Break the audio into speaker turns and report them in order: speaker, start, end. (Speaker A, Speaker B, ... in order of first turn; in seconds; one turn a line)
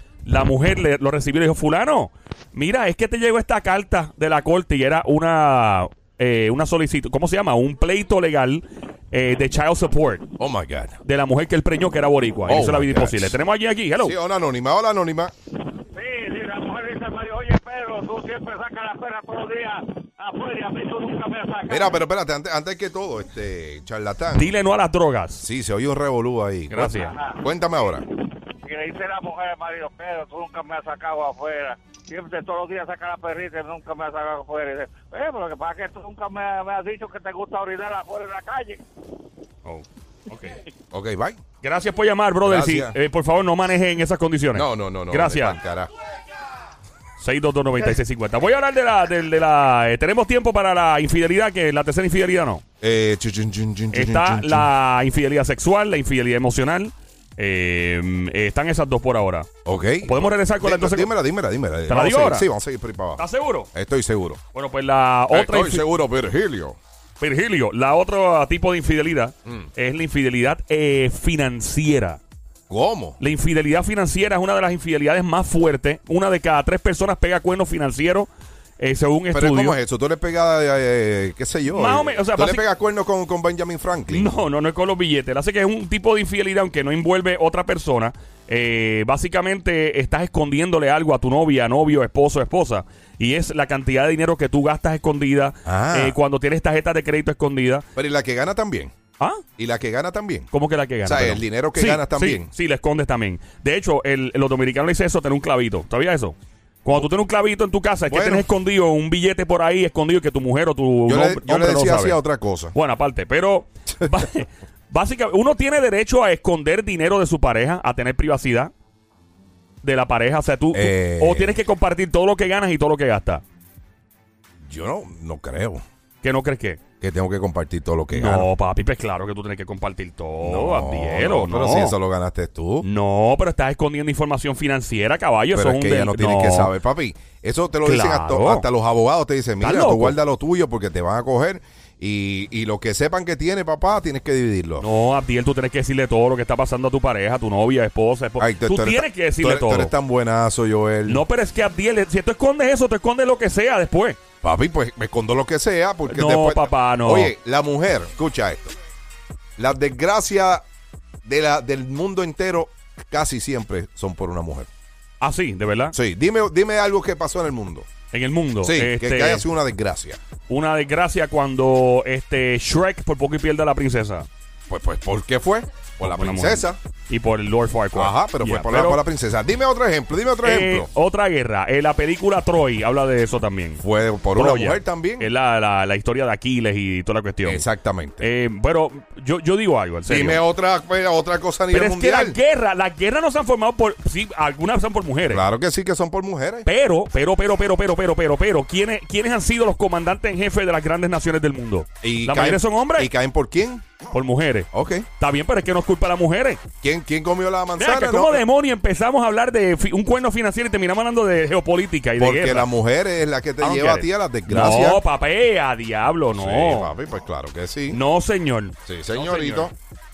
Speaker A: 0.2-10.3
Speaker B: 10.4-11.0
Speaker A: 11.0-14.2
Speaker B: 12.5-13.4
Speaker B: 14.0-15.3
Speaker C: 16.0-21.8
Speaker B: 21.7-24.5
Speaker A: 24.3-25.4
Speaker B: 25.4-28.1
Speaker A: 26.7-27.1
Speaker C: 28.7-38.8
Speaker A: 39.6-40.6
Speaker B: 40.9-41.4
Speaker A: 41.6-45.6
Speaker B: 42.4-43.0
Speaker B: 44.5-45.9
Speaker A: 47.2-52.6
Speaker B: 52.8-54.7
Speaker A: 53.9-59.5
Speaker B: 59.6-64.4
Speaker A: 60.0-61.1
Speaker A: 61.9-62.5
Speaker A: 63.2-63.7
Speaker A: 64.5-65.8
Speaker B: 65.3-66.8
Speaker A: 67.2-72.2
Speaker B: 72.7-73.2
Speaker A: 73.2-78.3
Speaker A: 78.8-79.8
Speaker B: 79.3-84.4
Speaker A: 81.7-82.6
Speaker A: 84.1-97.9
Speaker B: 95.7-96.2
Speaker B: 98.0-98.9
Speaker B: 99.6-100.5
Speaker A: 100.5-112.2
Speaker B: 101.0-102.5
Speaker B: 108.1-108.5
Speaker B: 111.1-112.7
Speaker A: 112.7-118.7
Speaker A: 119.8-123.4
Speaker B: 120.7-121.6
Speaker B: 124.6-125.8
Speaker A: 126.2-126.8
Speaker B: 127.0-128.5
Speaker A: 128.1-132.0
Speaker B: 130.4-132.9
Speaker A: 132.8-136.7
Speaker B: 135.5-144.9
Speaker A: 137.8-138.7
Speaker A: 139.6-140.2
Speaker A: 144.8-149.9
Speaker B: 148.4-151.2
Speaker A: 151.1-154.2
Speaker B: 154.4-158.7
Speaker A: 156.1-157.3
Speaker B: 159.6-160.7
Speaker B: 161.2-164.7
Speaker A: 165.2-165.9
Speaker B: 165.9-167.9
Speaker A: 168.1-169.5
Speaker B: 168.6-170.2
Speaker A: 170.5-174.3
Speaker B: 174.7-176.8
Speaker A: 176.0-179.0
Speaker B: 177.9-180.9
Speaker A: 180.4-187.6
Speaker B: 183.8-185.3
Speaker B: 187.4-188.2
Speaker A: 188.2-190.4
Speaker B: 190.1-192.4
Speaker A: 191.7-195.4
Speaker B: 195.3-196.7
Speaker A: 196.7-203.1
Speaker B: 202.0-203.9
Speaker A: 204.1-206.6
Speaker B: 204.7-205.1
Speaker B: 206.8-208.4
Speaker A: 207.8-212.7
Speaker B: 212.2-215.0
Speaker A: 213.6-216.9
Speaker B: 216.3-218.0
Speaker A: 217.9-219.7
Speaker B: 218.9-219.7